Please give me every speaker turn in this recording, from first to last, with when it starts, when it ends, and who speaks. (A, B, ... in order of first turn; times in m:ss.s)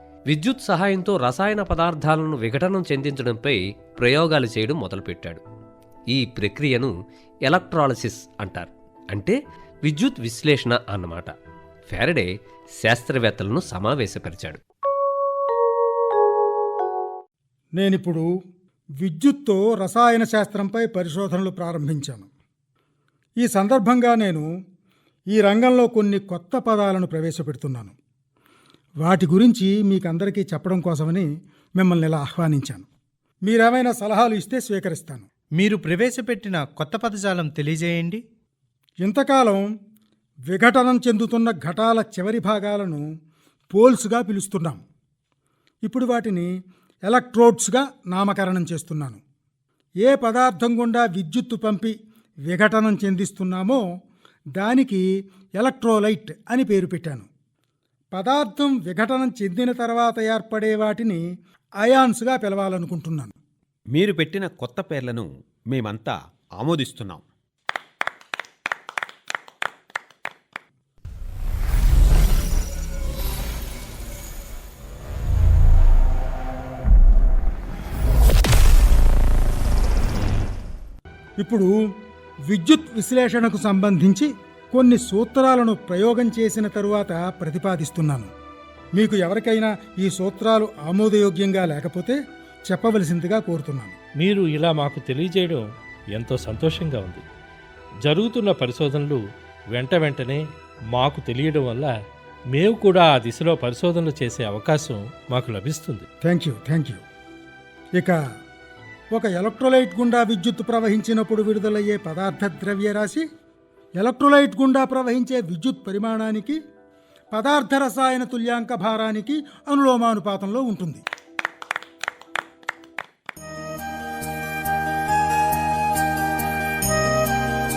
0:00.3-0:05.4 A
0:06.1-0:06.9 A
0:07.5-0:11.3 A
0:11.9-0:12.3 A
0:12.8-0:14.6 A
0:17.8-0:18.3 B
0:19.0-0:22.3 B
0:23.4-0:24.5 B
0:25.3-0:28.0 B
0:29.0-0:32.9 B
0:33.5-0:35.3 B
0:35.6-0:38.2 C
0:39.0-0:39.6 B
0:40.5-0:43.0 B
0:43.7-0:44.8 B
0:45.9-0:46.5 B
0:47.1-0:49.2 B
0:50.0-0:52.0 B
0:52.5-0:53.8 B
0:54.6-0:55.0 B
0:55.6-0:57.3 B
0:58.1-1:01.2 B
1:01.8-1:03.3 B
1:03.9-1:07.2 D
1:21.4-1:21.7 B
1:22.5-1:28.3 B
1:29.0-1:34.0 B
1:34.2-1:35.6 E
1:36.2-1:37.2 E
1:38.0-1:39.2 E
1:39.7-1:40.4 E
1:41.0-1:41.9 E
1:42.5-1:46.1 E
1:46.2-1:47.0 B
1:49.1-1:53.2 B
1:54.0-1:56.6 B
1:57.3-2:01.0 B